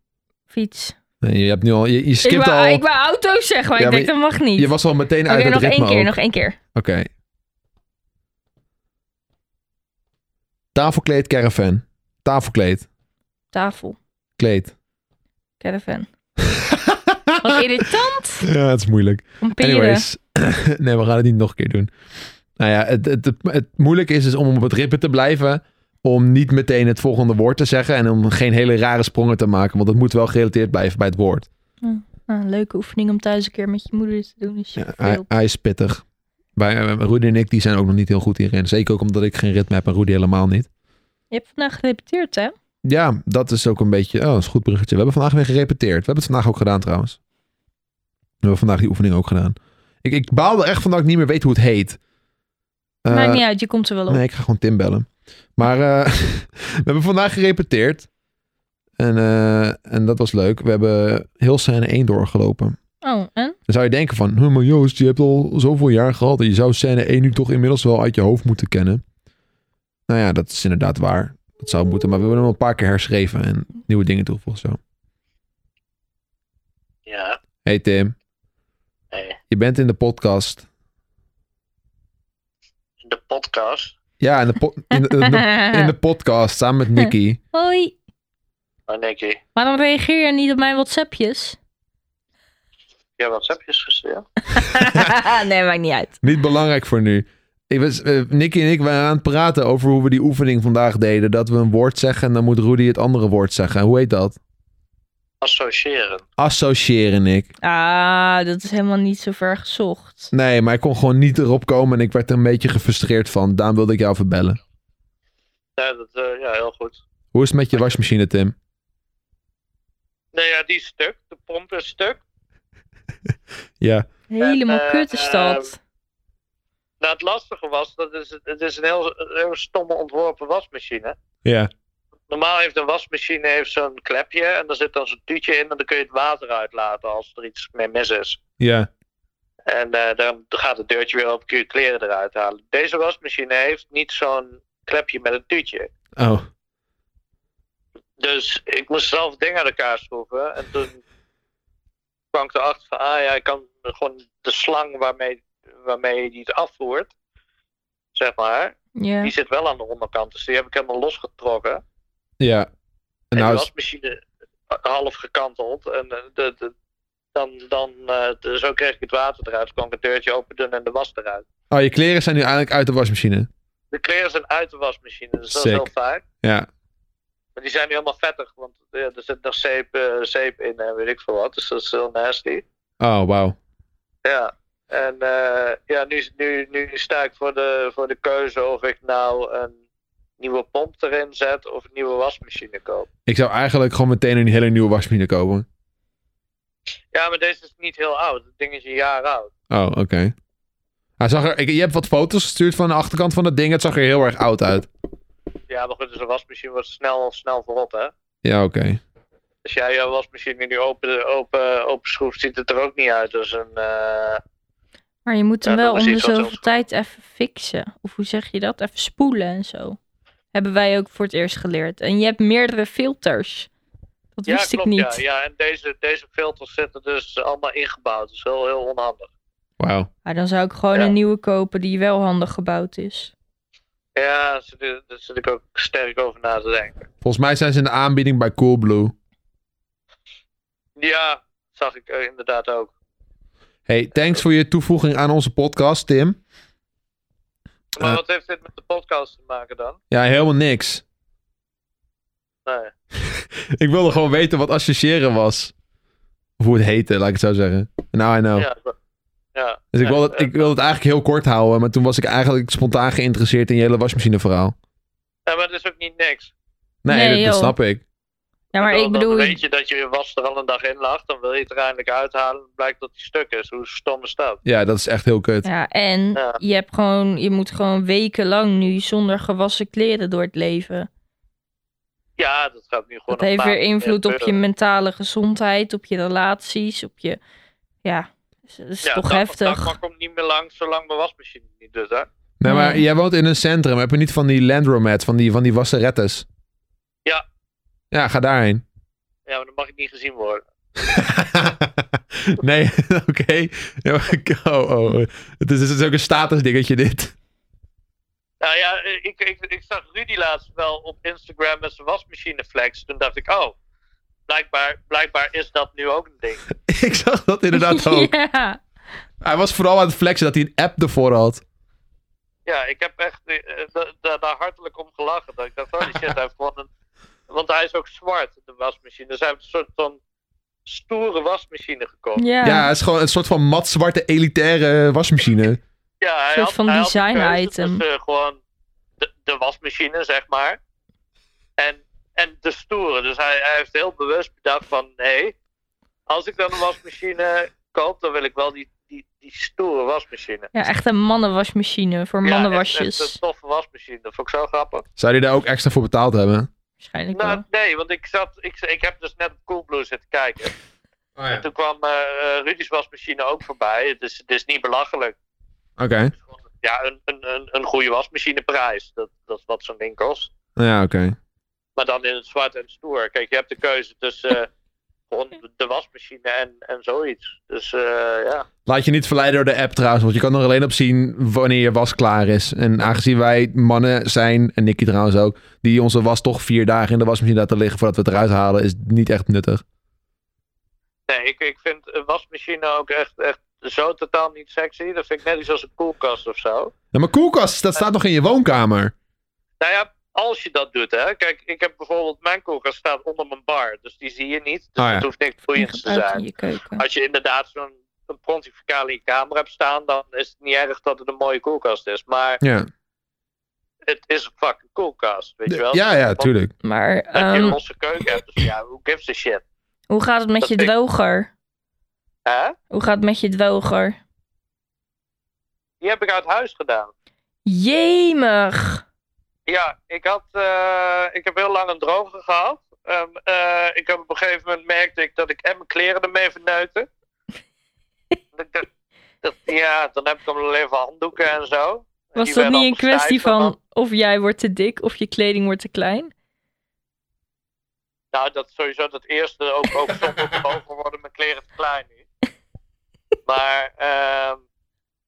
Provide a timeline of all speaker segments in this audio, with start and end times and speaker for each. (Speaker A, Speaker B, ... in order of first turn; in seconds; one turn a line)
Speaker A: 0.5-1.0
Speaker B: 1.2-2.8
Speaker A: 2.2-4.7
Speaker B: 3.8-6.2
Speaker A: 5.3-6.6
Speaker B: 6.8-7.1
Speaker B: 10.7-12.9
Speaker A: 13.5-14.0
Speaker B: 14.4-14.7
Speaker A: 15.6-16.1
Speaker B: 16.4-17.9
Speaker A: 17.4-18.5
Speaker B: 18.4-21.9
Speaker A: 19.4-20.1
Speaker B: 22.6-31.5
Speaker A: 31.8-35.3
Speaker B: 34.8-36.0
Speaker B: 36.6-40.7
Speaker A: 41.3-42.5
Speaker B: 42.8-47.2
Speaker B: 48.4-52.0
Speaker B: 53.0-53.4
Speaker A: 53.1-54.2
Speaker B: 54.1-58.1
Speaker B: 59.0-62.8
Speaker A: 63.0-63.6
Speaker B: 63.7-69.0
Speaker B: 70.1-74.8
Speaker C: 77.1-77.4
Speaker B: 77.7-78.2
Speaker C: 79.1-79.4
Speaker B: 79.5-80.7
Speaker C: 83.0-83.9
Speaker B: 84.2-87.4
Speaker A: 84.9-85.9
Speaker A: 87.0-88.0
Speaker C: 88.9-89.4
Speaker A: 89.5-91.6
Speaker C: 93.2-94.3
Speaker A: 94.5-96.2
Speaker B: 96.2-104.4
Speaker C: 105.4-106.2
Speaker B: 106.4-107.5
Speaker A: 107.6-110.3
Speaker B: 110.3-114.6
Speaker C: 115.8-117.0
Speaker B: 117.3-118.5
Speaker C: 120.3-122.2
Speaker B: 123.8-124.1
Speaker A: 124.3-125.8
Speaker C: 124.4-125.7
Speaker C: 127.0-131.2
Speaker B: 131.4-131.7
Speaker C: 132.3-138.4
Speaker B: 138.6-138.9
Speaker C: 139.7-145.9
Speaker B: 146.2-146.5
Speaker C: 148.2-151.0
Speaker C: 152.3-157.1
Speaker C: 158.2-161.8
Speaker A: 159.0-159.3
Speaker B: 162.4-162.7
Speaker B: 163.3-163.7
Speaker C: 163.3-166.7
Speaker C: 167.3-171.4
Speaker B: 171.7-173.5
Speaker C: 173.9-176.2
Speaker B: 175.5-175.9
Speaker B: 176.4-176.7
Speaker C: 177.6-182.7
Speaker B: 183.0-183.6
Speaker C: 184.2-189.8
Speaker C: 190.4-193.1
Speaker B: 193.3-195.7
Speaker C: 197.1-199.5
Speaker B: 199.7-200.3
Speaker B: 201.2-204.9
Speaker C: 205.7-208.1
Speaker B: 208.4-209.0
Speaker C: 209.7-214.4
Speaker A: 215.3-220.0
Speaker C: 215.7-216.6
Speaker A: 220.5-223.7
Speaker A: 224.4-225.2
Speaker C: 224.5-229.3
Speaker B: 229.8-230.1
Speaker A: 230.3-233.3
Speaker C: 234.2-237.1
Speaker B: 237.2-239.1
Speaker C: 241.0-242.9
Speaker B: 243.9-246.4
Speaker C: 248.0-250.0
Speaker B: 250.1-251.0
Speaker C: 252.7-252.9
Speaker B: 253.1-255.7
Speaker B: 256.6-258.7
Speaker C: 258.6-258.9
Speaker C: 259.6-260.7
Speaker B: 259.9-264.8
Speaker C: 265.5-266.5
Speaker B: 267.0-268.0
Speaker A: 267.1-267.8
Speaker A: 268.7-269.6
Speaker C: 268.8-274.6
Speaker B: 274.6-275.7
Speaker A: 275.6-281.1
Speaker C: 282.4-284.6
Speaker A: 283.3-287.4
Speaker A: 288.0-289.9
Speaker C: 289.0-292.3
Speaker B: 292.6-296.5
Speaker A: 292.6-293.0
Speaker B: 298.1-298.8
Speaker C: 299.5-300.6
Speaker B: 301.0-307.3
Speaker C: 308.6-313.8
Speaker C: 314.5-316.6
Speaker B: 316.9-318.3
Speaker A: 317.7-318.8
Speaker B: 319.4-321.6
Speaker C: 322.7-326.9
Speaker C: 327.5-330.2
Speaker C: 330.9-332.4
Speaker A: 332.4-332.9
Speaker B: 332.6-335.8
Speaker C: 336.2-338.6
Speaker A: 336.5-338.0
Speaker C: 339.2-340.8
Speaker C: 341.8-345.6
Speaker C: 346.3-350.7
Speaker A: 350.7-353.4
Speaker C: 352.4-355.1
Speaker B: 355.2-356.7
Speaker A: 357.0-357.6
Speaker C: 357.3-360.7
Speaker B: 361.4-361.6
Speaker C: 361.6-365.4
Speaker B: 366.0-366.3
Speaker C: 366.8-370.5
Speaker B: 370.8-371.4
Speaker C: 372.0-374.7
Speaker C: 375.3-378.7
Speaker B: 378.9-389.8
Speaker C: 391.3-396.9
Speaker B: 397.1-399.1
Speaker C: 399.8-406.4
Speaker B: 405.0-405.3
Speaker A: 405.8-407.0
Speaker C: 407.0-412.6
Speaker B: 412.6-412.9
Speaker C: 414.1-416.5
Speaker B: 415.7-416.7
Speaker A: 416.8-417.8
Speaker C: 417.3-419.6
Speaker A: 420.1-421.5
Speaker C: 420.6-420.9
Speaker C: 422.5-422.8
Speaker A: 422.9-424.2
Speaker C: 426.0-427.1
Speaker A: 427.7-429.0
Speaker C: 429.7-437.1
Speaker C: 438.5-438.9
Speaker C: 439.4-443.8
Speaker A: 442.4-446.3
Speaker C: 448.3-452.2
Speaker C: 453.5-454.6